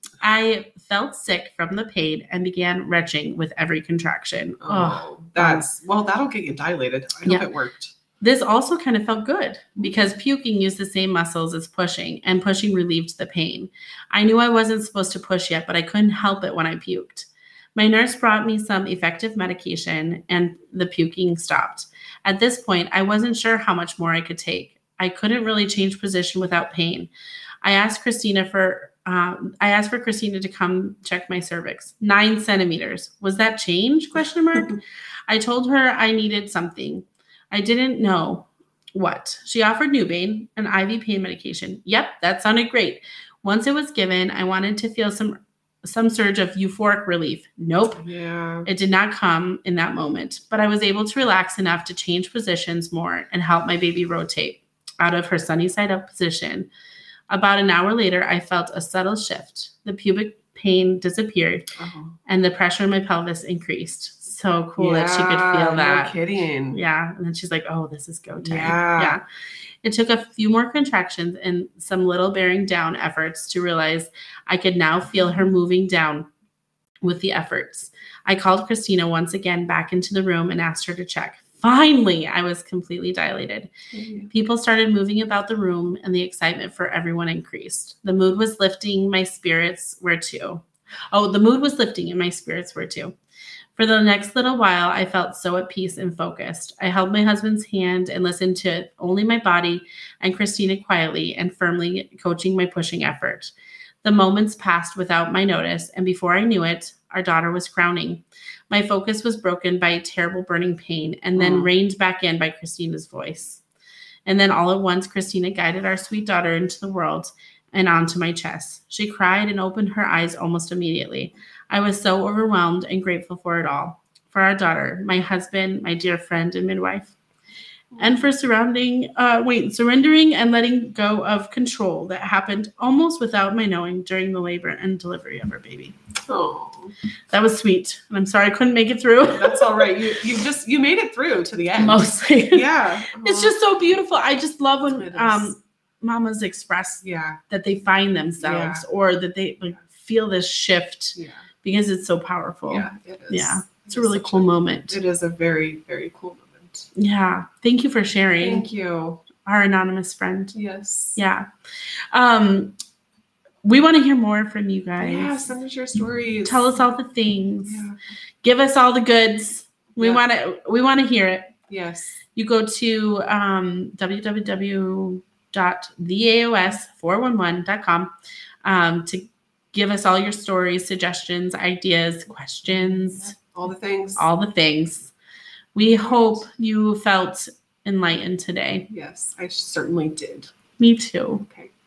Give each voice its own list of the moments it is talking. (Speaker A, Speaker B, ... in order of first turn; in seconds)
Speaker A: 0.2-5.7, 8.2-27.1, 27.6-48.0, 48.6-56.7, 57.3-61.7, 62.3-66.1, 66.7-69.2, 69.8-76.3, 77.0-83.7, 84.3-93.2, 93.8-103.5, 104.0-113.6, 114.3-127.2, 128.0-136.0, 137.3-139.9, 141.8-142.7, 143.2-155.0, 157.0-158.7, 159.4-160.6, 161.2-161.5, 162.1-162.8, 163.6-165.4, 166.4-167.8, 168.4-171.6, 172.3-178.1, 178.6-183.3, 184.2-185.1, 185.8-188.9, 190.8-191.5
Speaker B: 4.6-8.0, 48.0-48.7, 61.8-62.2, 64.8-66.8, 68.4-69.2, 83.9-84.3, 111.4-111.7, 127.9-128.3, 136.3-136.9, 139.3-143.6, 144.8-145.5, 147.0-147.4, 148.4-148.8, 151.2-151.4, 152.7-156.9, 158.4-159.2, 160.5-161.2, 165.0-166.8, 167.7-168.0, 171.7-172.2, 182.7-184.3, 185.9-186.4, 188.9-190.5